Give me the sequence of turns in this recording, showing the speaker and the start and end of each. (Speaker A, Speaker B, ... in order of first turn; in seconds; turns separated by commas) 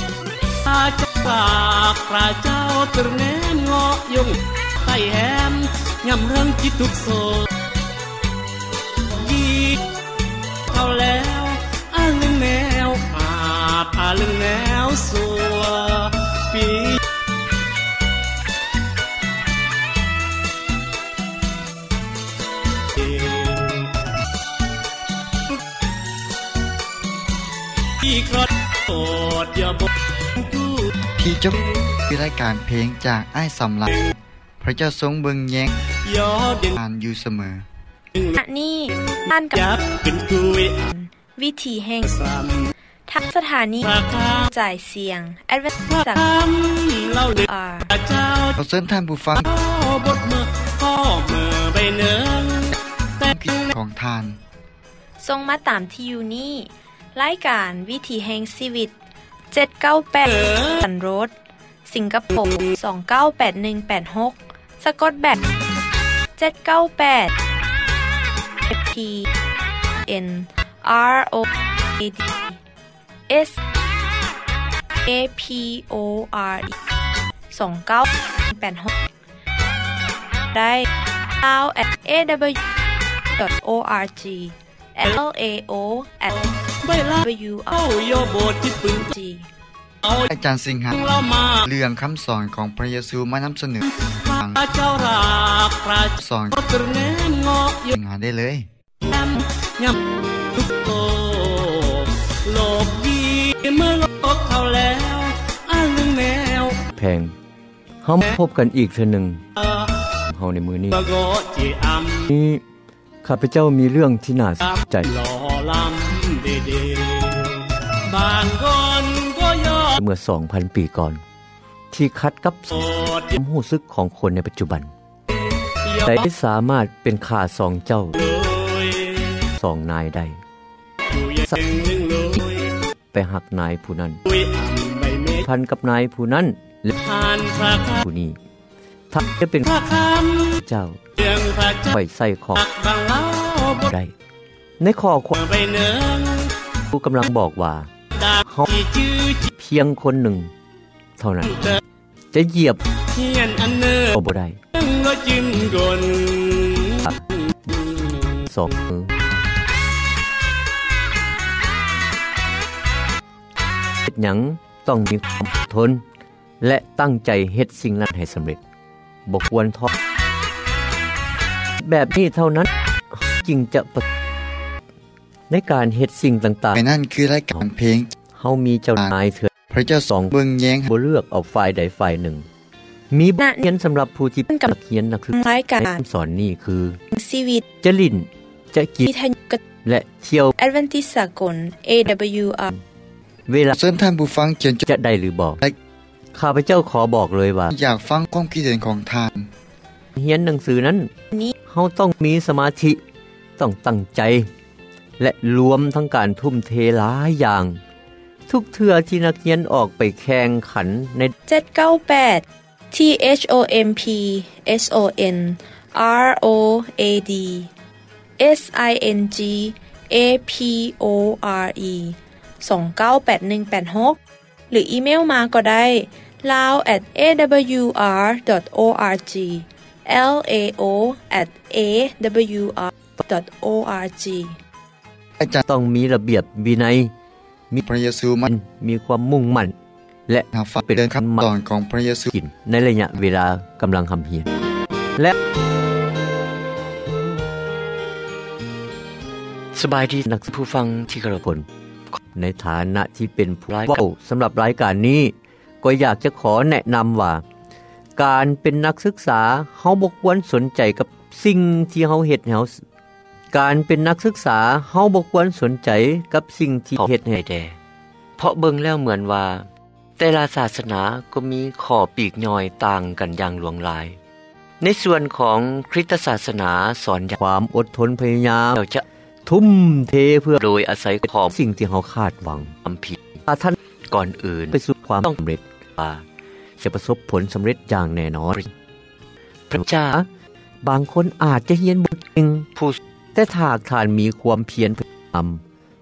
Speaker A: 0.6-7.5, Speaker A: 9.1-9.8, Speaker A: 10.7-17.0, Speaker A: 23.0-23.9, Speaker A: 28.0-30.9, Speaker B: 31.2-33.9, Speaker A: 33.9-34.1, Speaker B: 34.6-35.7, Speaker A: 35.9-36.8, Speaker B: 36.7-37.6, Speaker C: 38.4-39.6, Speaker A: 39.5-40.9, Speaker C: 40.9-42.1, Speaker A: 42.0-42.7, Speaker C: 43.1-43.9, Speaker A: 43.8-44.5, Speaker C: 44.4-46.2, Speaker A: 45.8-48.6, Speaker C: 47.5-47.9, Speaker B: 48.6-49.5, Speaker A: 49.4-53.7, Speaker B: 53.3-54.4, Speaker C: 55.2-58.9, Speaker C: 59.5-61.3, Speaker A: 60.2-60.8, Speaker C: 61.9-65.4, Speaker C: 66.4-67.3, Speaker C: 68.7-69.3, Speaker C: 70.1-72.6, Speaker C: 73.3-73.6, Speaker C: 75.0-76.7, Speaker C: 77.5-78.9, Speaker C: 80.5-80.9, Speaker C: 81.4-82.6, Speaker C: 83.4-86.4, Speaker A: 86.3-89.1, Speaker C: 87.2-87.8, Speaker C: 89.1-89.5, Speaker A: 90.0-90.3, Speaker B: 90.3-91.0, Speaker A: 90.9-91.7, Speaker B: 91.6-94.6, Speaker A: 94.1-97.9, Speaker B: 96.2-96.6, Speaker B: 97.9-98.7, Speaker A: 99.0-100.0, Speaker A: 100.5-106.9, Speaker D: 106.9-107.3, Speaker D: 108.0-109.4, Speaker A: 109.5-110.1, Speaker D: 110.3-111.0, Speaker A: 110.9-112.3, Speaker D: 112.3-112.6, Speaker D: 113.2-115.1, Speaker A: 114.6-120.0, Speaker D: 120.0-121.2, Speaker D: 121.9-122.8, Speaker A: 122.7-123.4, Speaker D: 123.4-124.9, Speaker A: 125.8-126.3, Speaker D: 126.0-128.2, Speaker A: 128.2-129.5, Speaker D: 129.6-130.4, Speaker A: 131.1-132.8, Speaker D: 133.1-134.2, Speaker A: 134.3-135.5, Speaker D: 135.4-136.9, Speaker A: 137.0-138.0, Speaker D: 138.0-138.4, Speaker D: 139.1-139.7, Speaker A: 139.6-140.6, Speaker D: 140.6-141.0, Speaker A: 141.2-141.9, Speaker D: 141.9-142.6, Speaker A: 142.6-143.9, Speaker D: 143.9-144.1, Speaker D: 144.8-145.4, Speaker A: 145.3-146.6, Speaker D: 146.9-147.9, Speaker A: 148.1-149.5, Speaker D: 149.6-150.5, Speaker D: 151.2-151.6, Speaker A: 151.4-151.8, Speaker D: 152.3-152.8, Speaker A: 153.1-154.2, Speaker D: 154.1-154.6, Speaker A: 154.7-158.9, Speaker D: 158.5-159.1, Speaker D: 164.0-166.0, Speaker D: 166.6-168.6, Speaker D: 169.2-169.9, Speaker D: 171.8-174.0, Speaker D: 175.5-176.8, Speaker B: 176.7-178.1, Speaker D: 178.3-179.5, Speaker B: 179.7-180.9, Speaker D: 180.1-180.3, Speaker D: 180.9-182.4, Speaker D: 183.1-187.0, Speaker C: 183.4-183.7, Speaker C: 185.3-186.0, Speaker C: 187.1-187.6, Speaker D: 187.8-189.1, Speaker C: 189.1-189.6, Speaker D: 189.8-190.6, Speaker C: 190.6-192.7, Speaker D: 193.5-193.8, Speaker B: 193.7-194.8, Speaker D: 194.8-195.6, Speaker D: 196.3-197.7, Speaker B: 197.7-199.5, Speaker D: 200.2-201.1, Speaker D: 201.7-203.0, Speaker D: 203.6-204.5, Speaker D: 205.2-207.8, Speaker D: 208.5-211.3, Speaker C: 211.5-217.7, Speaker C: 218.4-224.2, Speaker C: 224.7-234.6, Speaker D: 235.6-237.1, Speaker B: 237.8-238.5, Speaker D: 238.5-239.7, Speaker D: 240.3-241.5, Speaker B: 240.5-242.3, Speaker D: 242.3-244.5, Speaker D: 249.7-257.4, Speaker D: 258.2-262.8, Speaker D: 263.5-267.8, Speaker D: 268.4-274.1, Speaker D: 274.8-286.2, Speaker D: 286.8-288.7, Speaker D: 289.7-290.3, Speaker D: 290.8-295.6